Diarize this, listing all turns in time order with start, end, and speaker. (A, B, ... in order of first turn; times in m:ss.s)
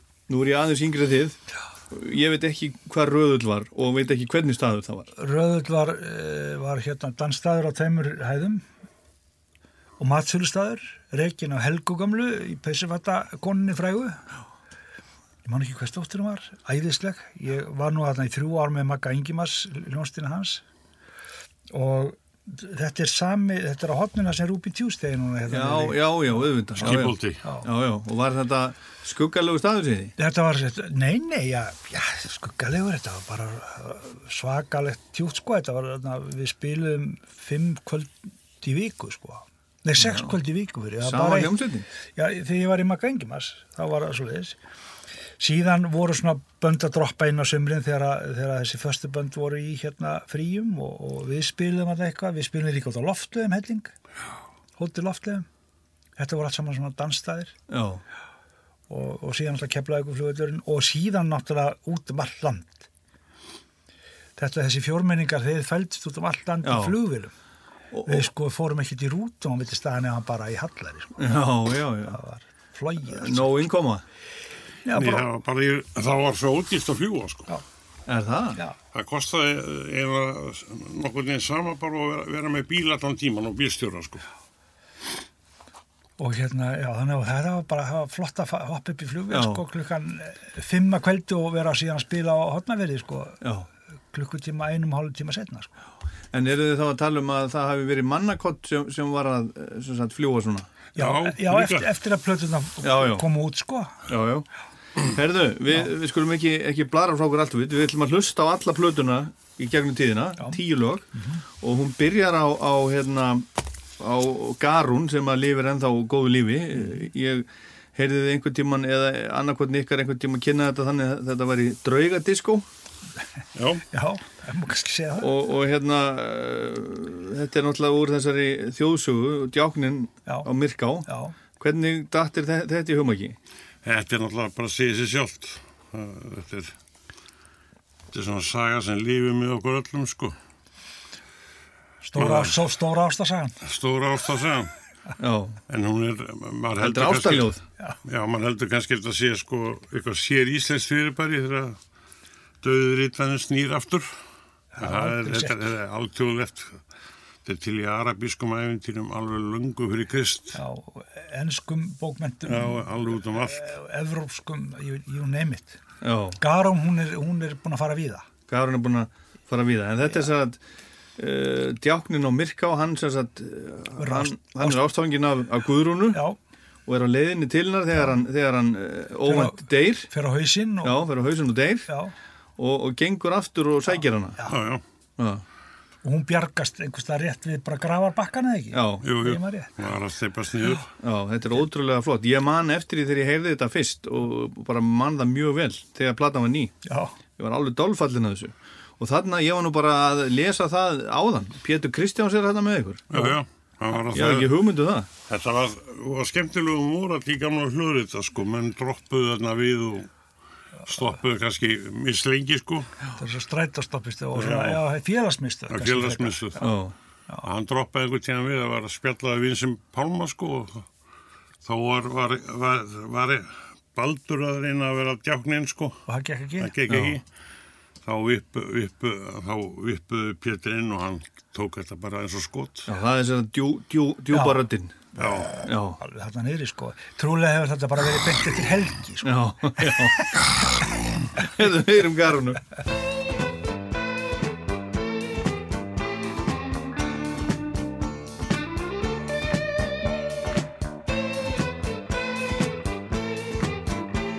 0:00.3-0:01.4 A
0:01.9-0:05.1 A
0:05.2-0:08.6 B
0:10.0-0:14.2 B
0:15.4-0:20.6 B
0:21.7-0:27.6 B
0:25.5-0:30.1 A
0:26.8-0:27.4 C
0:30.2-0:41.5 B
0:40.0-0:40.3 A
0:41.0-0:41.9 A
0:42.2-0:44.6 B
0:45.4-0:53.9 B
0:54.8-0:55.4 B
0:56.2-0:57.5 B
0:57.7-0:58.0 A
0:58.9-1:02.9 B
1:04.4-1:07.3 B
1:06.6-1:07.0 A
1:07.9-1:08.3 A
1:08.0-1:11.3 B
1:11.2-1:12.2 A
1:12.0-1:13.6 B
1:13.0-1:14.0 A
1:14.8-1:15.2 B
1:14.9-1:17.5 C
1:18.1-1:18.6 A
1:18.9-1:24.2 C
1:26.2-1:33.4 B
1:29.3-1:29.6 A
1:33.4-1:33.7 A
1:34.1-1:35.7 B
1:36.3-1:40.7 A
1:41.0-1:44.0 B
1:41.0-1:41.9 C
1:42.8-1:43.2 A
1:44.1-1:44.4 A
1:45.0-1:51.1 A
1:51.1-1:51.4 B
1:51.6-1:53.4 A
1:54.0-2:02.6 A
2:03.5-2:03.8 C
2:03.9-2:05.3 B
2:05.2-2:11.1 A
2:11.0-2:11.3 B
2:11.6-2:13.4 A
2:13.8-2:16.7 C
2:18.1-2:20.4 C
2:22.0-2:23.6 B
2:22.2-2:22.6 C
2:23.6-2:24.7 C
2:25.2-2:25.6 A
2:25.7-2:27.5 C
2:26.8-2:27.6 A
2:28.0-2:31.8 C
2:32.6-2:34.1 C
2:34.8-2:35.6 B
2:34.8-2:36.8 C
2:37.4-2:40.6 C
2:40.5-2:45.8 B
2:42.4-2:43.7 C
2:46.0-2:46.4 A
2:46.4-2:48.2 B
2:48.5-2:50.6 A
2:51.2-2:56.2 A
2:54.0-2:54.8 B
2:56.8-3:00.1 A
2:59.2-3:01.0 B
3:00.8-3:01.9 A
3:01.9-3:02.1 B
3:02.6-3:04.4 A
3:04.5-3:04.8 C
3:05.2-3:05.4 A
3:06.0-3:09.7 B
3:08.7-3:09.0 A
3:09.0-3:10.9 C
3:11.0-3:16.7 A
3:16.8-3:17.1 B
3:17.4-3:23.2 A
3:23.1-3:24.6 C
3:24.1-3:25.1 A
3:25.3-3:30.1 C
3:30.9-3:33.0 C
3:33.2-3:36.6 B
3:34.3-3:34.8 C
3:35.7-3:36.6 C
3:36.6-3:36.9 A
3:37.4-3:40.8 C
3:41.6-3:46.0 C
3:46.1-3:46.7 B
3:46.6-3:47.2 C
3:46.9-3:47.2 A
3:48.0-3:52.9 C
3:52.9-3:55.0 A
3:55.2-3:55.5 C
3:55.5-4:00.0 B
3:55.6-3:56.0 A
3:59.2-4:00.3 A
4:01.4-4:02.6 A